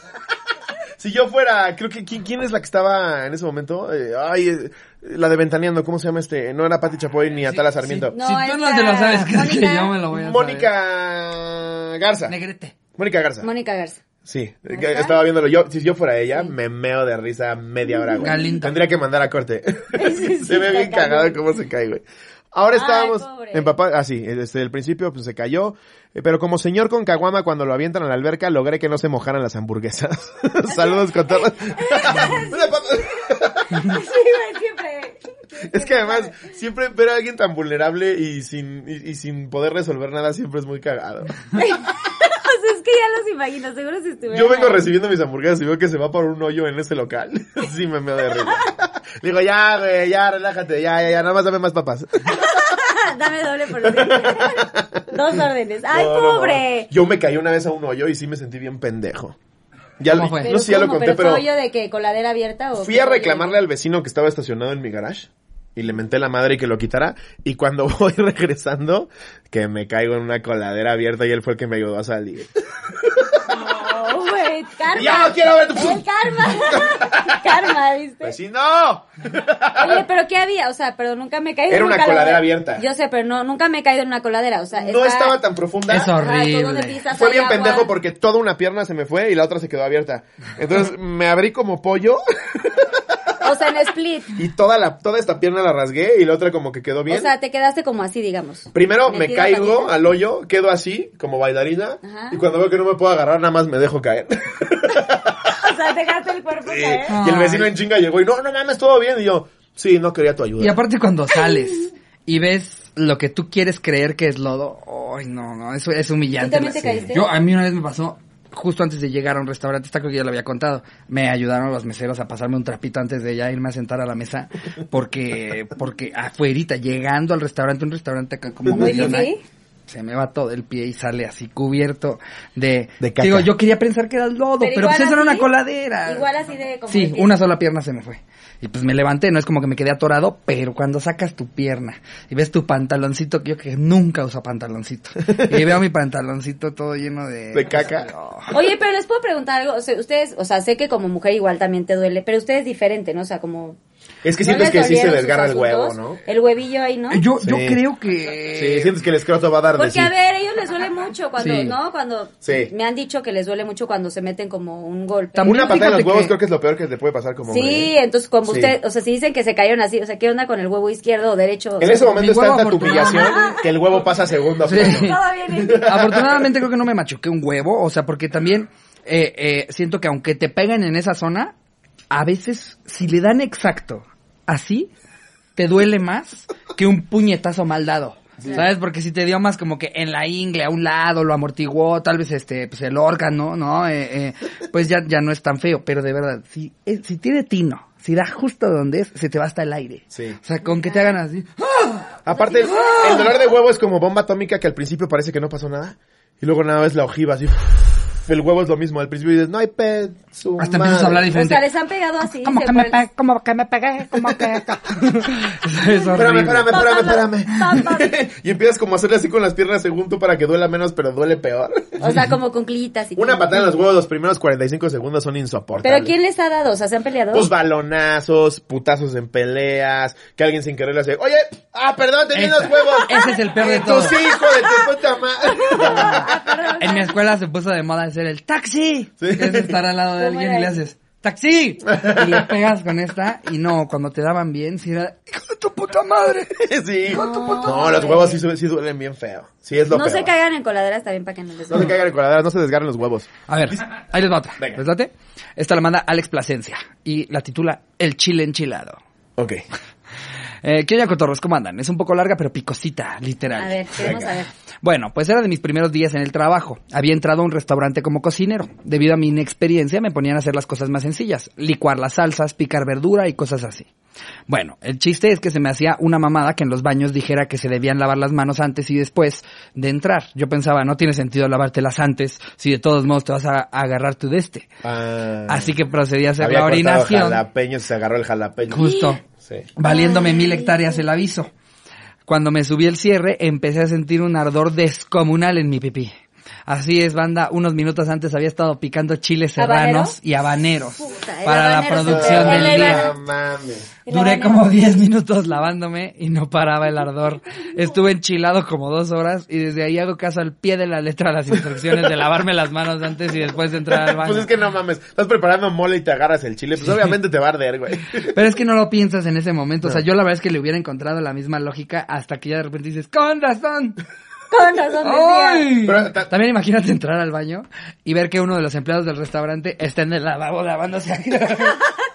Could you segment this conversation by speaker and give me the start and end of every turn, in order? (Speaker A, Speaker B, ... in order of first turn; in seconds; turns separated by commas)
Speaker A: 1.0-8.1, Speaker B: 7.4-10.7, Speaker C: 8.1-9.9, Speaker A: 10.1-12.3, Speaker B: 12.3-12.8, Speaker A: 13.0-13.5, Speaker C: 13.4-14.0, Speaker A: 14.2-33.9, Speaker C: 14.7-15.2, Speaker C: 18.1-18.5, Speaker B: 18.2-18.8, Speaker C: 20.0-21.4, Speaker C: 22.7-23.8, Speaker C: 30.7-33.2, Speaker C: 33.7-36.4, Speaker A: 35.7-41.4, Speaker C: 41.5-44.9, Speaker A: 44.3-52.4, Speaker C: 52.3-56.9, Speaker A: 53.9-55.0, Speaker A: 55.9-59.4, Speaker A: 60.0-61.5, Speaker B: 60.1-60.5, Speaker C: 60.4-63.6, Speaker A: 62.8-72.5, Speaker A: 73.0-73.6, Speaker C: 73.5-78.3, Speaker A: 74.9-77.5, Speaker A: 78.2-80.0, Speaker C: 79.8-85.4, Speaker A: 81.7-82.8, Speaker A: 84.8-86.1, Speaker B: 85.9-87.0, Speaker C: 86.1-87.9, Speaker A: 87.1-93.0, Speaker C: 93.4-94.4, Speaker A: 94.3-97.3, Speaker C: 97.1-99.9, Speaker A: 98.7-105.6, Speaker C: 102.0-102.4, Speaker C: 105.6-107.2, Speaker A: 106.7-110.8, Speaker B: 107.1-107.7, Speaker B: 110.6-129.3, Speaker C: 116.4-117.3, Speaker A: 116.8-117.1, Speaker A: 128.7-129.1, Speaker C: 128.7-129.4, Speaker B: 129.9-136.3, Speaker A: 133.0-133.5, Speaker C: 134.6-135.5, Speaker C: 136.1-137.3, Speaker B: 136.9-148.5, Speaker A: 147.5-148.1, Speaker C: 148.5-153.8, Speaker A: 154.2-156.2, Speaker C: 154.4-157.2, Speaker B: 157.1-158.9, Speaker A: 157.4-157.8, Speaker A: 158.5-160.1, Speaker C: 159.8-165.6, Speaker B: 161.4-161.8, Speaker A: 162.4-162.7, Speaker B: 165.3-166.3, Speaker A: 165.4-167.9, Speaker C: 167.5-172.1, Speaker A: 168.5-168.7, Speaker A: 171.8-176.3, Speaker B: 172.1-173.6, Speaker C: 172.9-173.7, Speaker B: 174.6-181.5, Speaker C: 174.7-175.9, Speaker B: 182.1-184.9, Speaker B: 185.6-202.2, Speaker A: 200.1-200.4, Speaker C: 200.7-201.1, Speaker A: 202.2-211.3, Speaker C: 202.3-203.3, Speaker B: 202.7-203.3, Speaker B: 210.6-211.6, Speaker C: 211.3-213.0, Speaker B: 212.4-216.8, Speaker A: 216.1-222.0, Speaker C: 216.7-218.2, Speaker C: 222.0-223.7, Speaker A: 223.2-226.1, Speaker C: 225.8-227.5, Speaker A: 227.3-236.3, Speaker B: 232.3-234.2, Speaker C: 234.5-237.2, Speaker B: 236.8-246.6, Speaker A: 239.2-239.8, Speaker C: 240.2-240.8, Speaker A: 241.9-242.4, Speaker A: 246.6-250.3, Speaker B: 247.1-247.9, Speaker C: 247.1-248.4, Speaker C: 249.9-251.9, Speaker A: 251.7-253.3, Speaker B: 253.5-259.0, Speaker A: 259.4-259.6, Speaker B: 260.6-264.2, Speaker C: 263.6-264.5, Speaker A: 264.0-264.3, Speaker B: 264.8-273.9, Speaker B: 274.5-284.7, Speaker A: 284.8-285.7, Speaker B: 285.5-287.4, Speaker A: 286.4-288.9, Speaker B: 288.7-289.2, Speaker C: 288.8-289.2, Speaker A: 289.4-289.7, Speaker B: 289.8-291.5, Speaker C: 289.8-290.8, Speaker B: 292.3-296.1, Speaker B: 296.7-303.1, Speaker C: 299.6-300.2, Speaker C: 301.0-303.1, Speaker A: 302.1-303.9, Speaker C: 304.1-304.7, Speaker B: 304.1-314.5, Speaker A: 313.9-318.4, Speaker B: 316.8-317.1, Speaker B: 318.1-324.0, Speaker C: 324.5-325.7, Speaker B: 325.0-331.8, Speaker A: 325.8-326.3